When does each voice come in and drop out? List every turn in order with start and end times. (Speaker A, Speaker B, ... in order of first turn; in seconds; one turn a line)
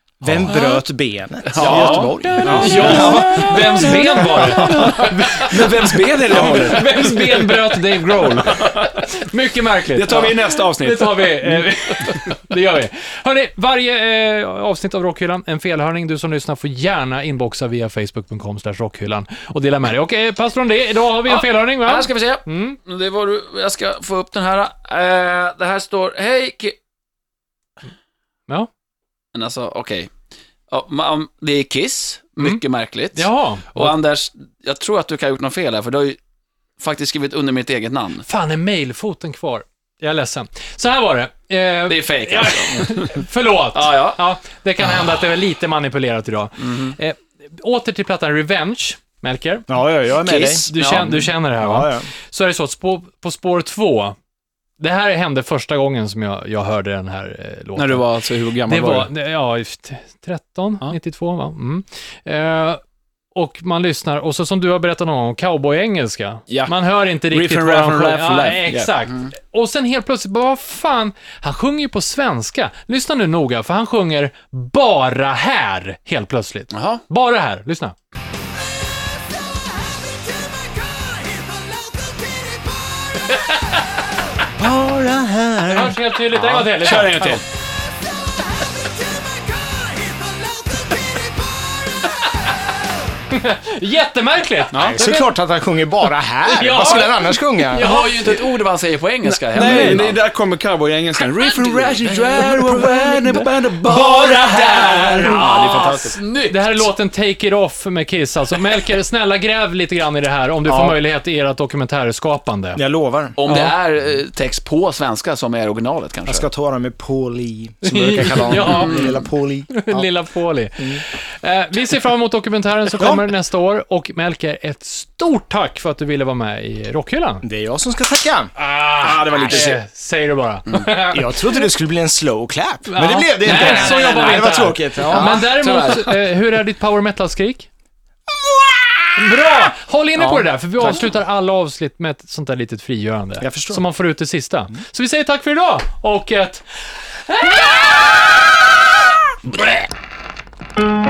Speaker A: 0.2-5.0
Speaker B: 1.6-9.1
Speaker C: 1.6-2.9
Speaker D: 1.6-22.8
Speaker B: 9.9-12.2
Speaker C: 21.3-26.8
Speaker C: 29.3-30.1
Speaker C: 30.7-36.2
Speaker D: 33.1-34.0
Speaker C: 36.8-38.3
Speaker D: 38.3-54.2
Speaker C: 41.9-43.1
Speaker C: 43.7-44.2
Speaker C: 46.6-47.0
Speaker A: 49.7-50.7
Speaker C: 50.6-51.3
Speaker A: 51.6-52.1
Speaker D: 54.8-62.8
Speaker B: 57.8-59.1
Speaker D: 63.4-78.0
Speaker B: 66.5-66.8
Speaker B: 67.3-68.9
Speaker C: 76.7-77.0
Speaker A: 84.6-86.1
Speaker D: 85.7-87.4
Speaker B: 86.3-87.4
Speaker D: 93.3-95.3
Speaker B: 94.7-95.0
Speaker A: 94.7-97.9
Speaker D: 96.5-98.4
Speaker C: 97.7-100.2
Speaker B: 99.3-106.2
Speaker D: 99.5-100.1
Speaker C: 101.4-102.8
Speaker D: 103.8-105.5
Speaker C: 104.0-106.8
Speaker D: 106.5-112.8
Speaker A: 110.7-111.0
Speaker A: 112.8-113.4
Speaker C: 113.4-116.5
Speaker D: 113.5-113.7
Speaker A: 116.3-120.1
Speaker D: 117.8-119.0
Speaker C: 118.6-119.2
Speaker D: 119.7-127.5
Speaker A: 123.0-123.2
Speaker A: 127.4-128.5
Speaker D: 128.6-131.7
Speaker B: 129.0-129.7
Speaker A: 129.2-129.8
Speaker A: 131.1-135.5
Speaker D: 132.9-137.7
Speaker C: 133.5-134.4
Speaker C: 135.0-136.2
Speaker A: 138.3-139.5
Speaker D: 139.2-146.7
Speaker A: 143.4-143.8
Speaker D: 147.3-148.0